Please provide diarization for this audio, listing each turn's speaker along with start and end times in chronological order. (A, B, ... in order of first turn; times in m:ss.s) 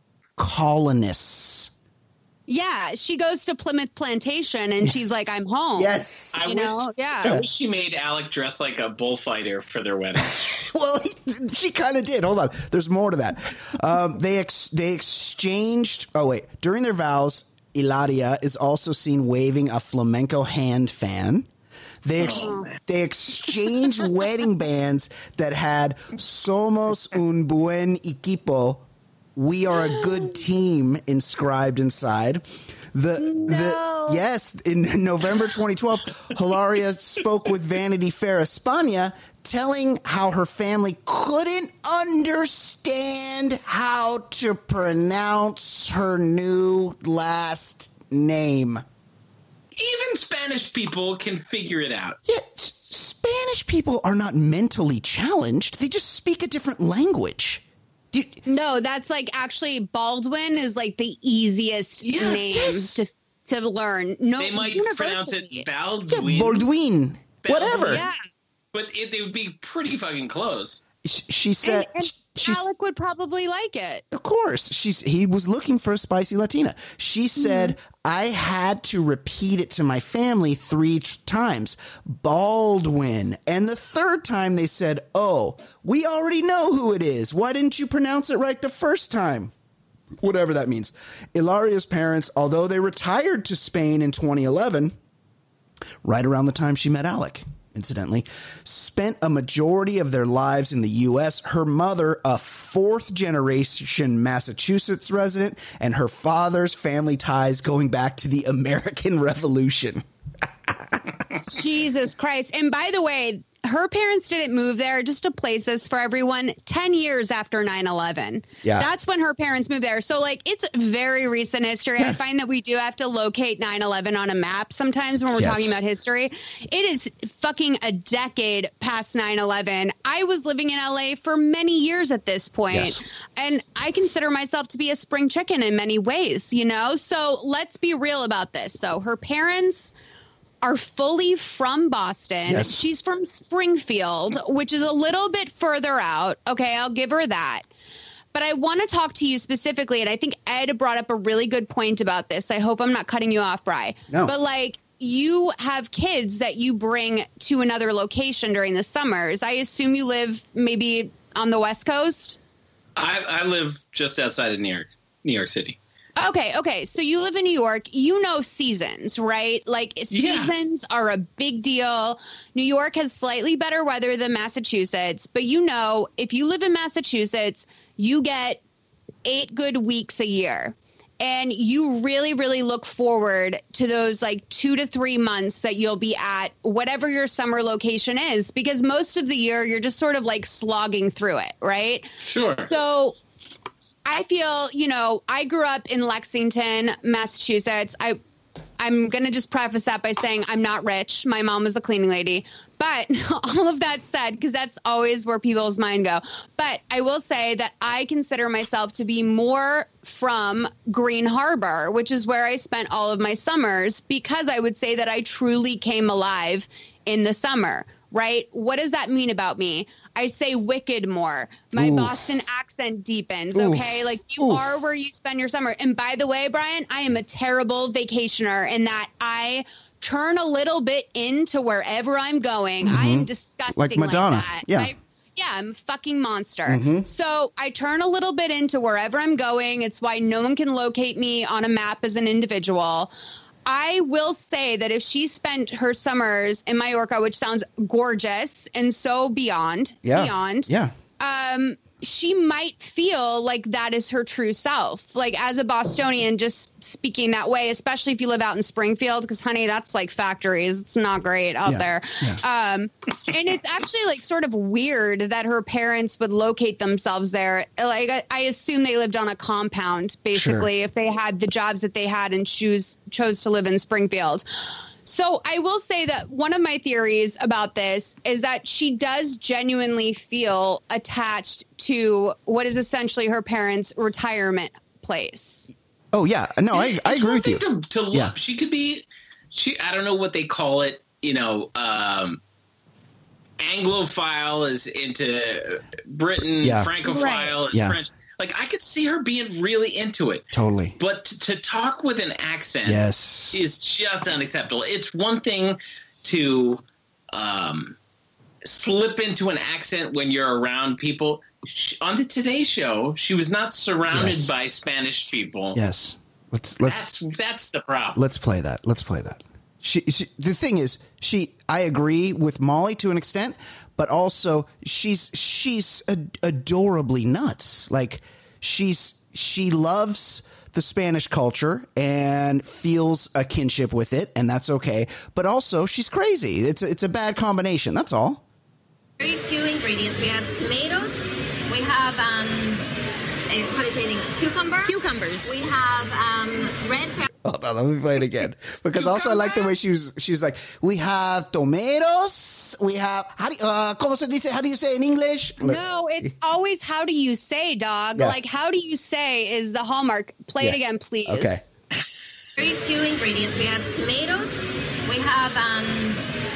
0:00.4-0:01.7 A
0:02.5-0:07.4 B
0:04.8-0:05.2 A
0:05.8-0:06.4 A
0:06.3-0:10.5 C
0:10.4-0:21.5 A
0:22.0-0:48.8 A
0:22.2-0:22.8 C
0:22.4-0:22.6 B
0:33.2-0:34.2 B
0:49.8-0:52.2 C
0:52.2-0:58.4 A
0:58.4-1:05.6 B
1:02.0-1:02.4 C
1:02.5-1:03.0 A
1:04.4-1:06.6 C
1:06.1-1:08.0 A
1:07.4-1:08.1 C
1:07.9-1:08.2 B
1:08.7-1:10.8 C
1:11.0-1:12.6 A
1:11.6-1:14.0 B
1:14.1-1:29.5 A
1:17.4-1:17.7 B
1:30.2-1:34.9 A
1:36.0-1:51.0 A
1:51.5-2:19.9 B
1:58.6-1:58.9 A
2:05.3-2:05.8 A
2:12.7-2:13.0 A
2:20.6-2:27.7 B
2:22.5-2:22.8 A
2:28.3-2:42.4 B
2:43.0-2:45.8 C
2:46.2-2:58.6 B
2:50.1-2:50.5 C
2:59.2-3:12.1 B
3:12.2-3:12.7 C
3:12.6-3:13.2 B
3:14.0-3:18.2 B
3:18.8-4:03.1 B
3:41.7-3:42.2 A
3:43.5-3:44.6 A
3:52.8-3:54.9 A
3:56.6-3:57.1 A
4:03.6-4:34.4 B
4:10.0-4:10.9 A
4:21.6-4:22.4 A
4:30.3-4:30.7 A
4:35.0-4:45.7 B
4:46.1-4:48.3 A
4:46.7-4:52.4 C
4:53.6-5:06.8 C
4:56.6-4:56.9 A
4:57.0-4:57.5 B
4:57.7-4:58.0 A
5:00.5-5:01.0 A
5:02.8-5:03.6 A
5:07.3-5:08.0 C
5:08.6-5:15.8 C
5:14.1-5:14.5 A
5:15.7-5:17.0 A
5:16.8-5:18.2 C
5:18.1-5:38.4 A
5:39.2-5:42.8 D
5:43.5-5:47.3 D
5:44.9-5:45.6 B
5:47.4-5:56.3 A
5:49.0-5:49.7 B
5:55.6-6:01.6 B
6:00.6-6:01.6 A
6:02.6-6:06.2 D